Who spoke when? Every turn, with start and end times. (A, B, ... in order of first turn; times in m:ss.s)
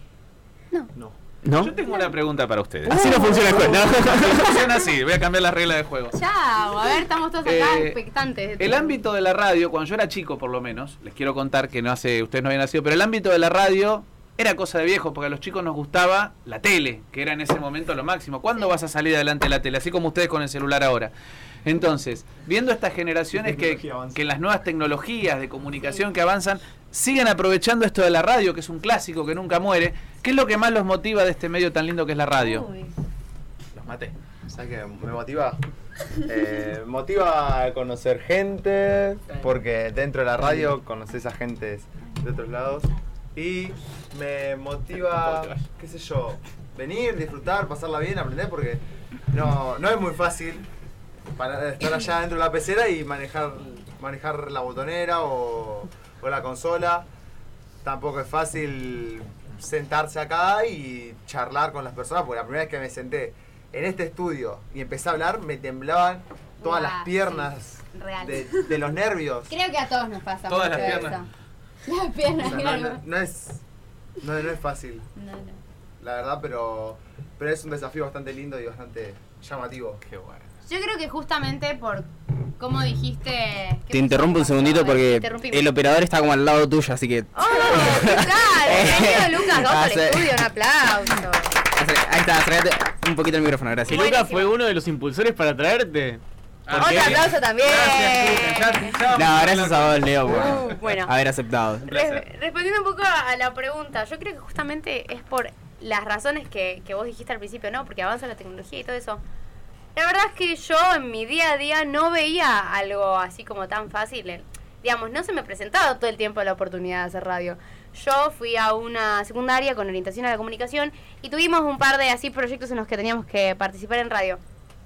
0:01.4-0:01.7 A
0:01.5-0:06.2 B
0:02.8-0:04.7 A
0:06.1-0:09.0 C
0:07.4-0:08.0 B
0:08.6-0:21.1 B
0:21.6-0:32.6 B
0:23.3-0:24.2 D
0:32.4-0:32.9 C
0:33.8-0:34.1 B
0:34.5-0:35.6 D
0:36.2-0:48.8 D
0:49.3-0:50.7 D
0:51.4-0:57.1 D
0:57.8-1:09.5 D
1:06.6-1:08.6 C
1:09.5-1:11.3 C
1:10.5-1:11.2 B
1:10.7-1:11.2 D
1:11.8-1:13.0 C
1:12.4-1:13.6 D
1:14.2-1:15.0 D
1:15.2-1:15.6 C
1:16.0-1:20.0 D
1:20.6-1:25.7 C
1:23.9-1:30.3 E
1:27.3-1:31.5 C
1:31.7-1:34.0 E
1:33.9-1:37.3 A
1:33.9-1:34.5 C
1:36.7-1:40.7 B
1:36.8-1:38.9 C
1:39.1-1:41.9 E
1:40.3-1:41.1 C
1:41.8-1:49.2 C
1:41.9-1:42.2 B
1:50.0-2:04.4 C